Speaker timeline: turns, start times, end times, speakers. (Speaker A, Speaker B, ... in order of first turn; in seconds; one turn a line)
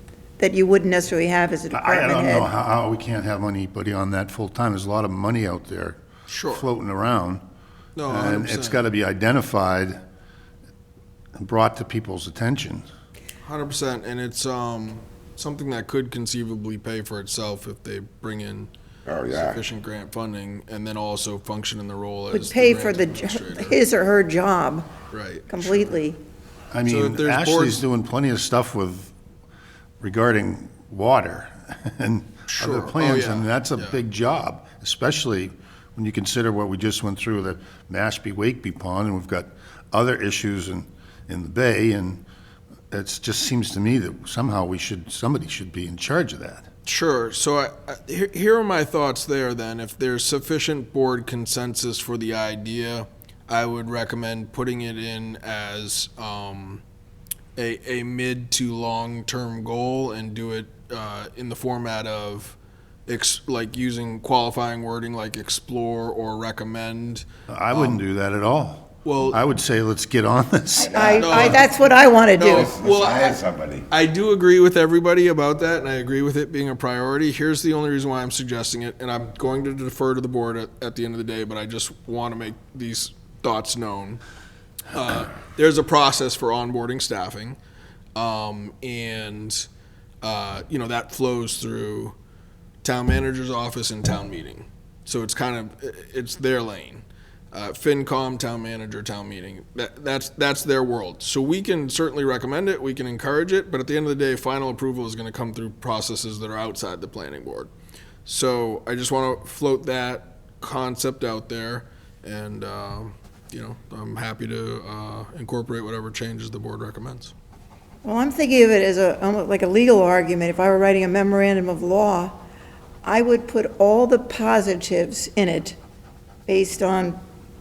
Speaker A: 0.4-2.5
Speaker B: 1.7-7.4
Speaker C: 6.3-6.7
Speaker C: 8.0-8.8
Speaker B: 8.1-10.0
Speaker B: 11.4-12.9
Speaker C: 13.4-18.7
Speaker D: 19.1-19.6
Speaker C: 19.3-23.8
Speaker A: 22.3-24.9
Speaker C: 25.1-26.0
Speaker A: 25.5-26.2
Speaker B: 26.7-29.1
Speaker C: 26.8-27.9
Speaker B: 30.0-42.2
Speaker C: 32.5-34.0
Speaker B: 42.9-46.7
Speaker C: 46.9-56.8
Speaker C: 57.6-68.0
Speaker B: 67.5-71.6
Speaker C: 69.0-69.4
Speaker D: 70.8-71.6
Speaker A: 70.8-72.7
Speaker C: 71.1-71.7
Speaker C: 72.4-84.2
Speaker D: 72.5-73.9
Speaker C: 84.9-87.6
Speaker C: 88.2-89.7
Speaker C: 90.2-92.1
Speaker C: 92.8-107.7
Speaker C: 108.3-117.3
Speaker A: 118.0-122.4
Speaker A: 123.0-125.8
Speaker A: 126.5-127.2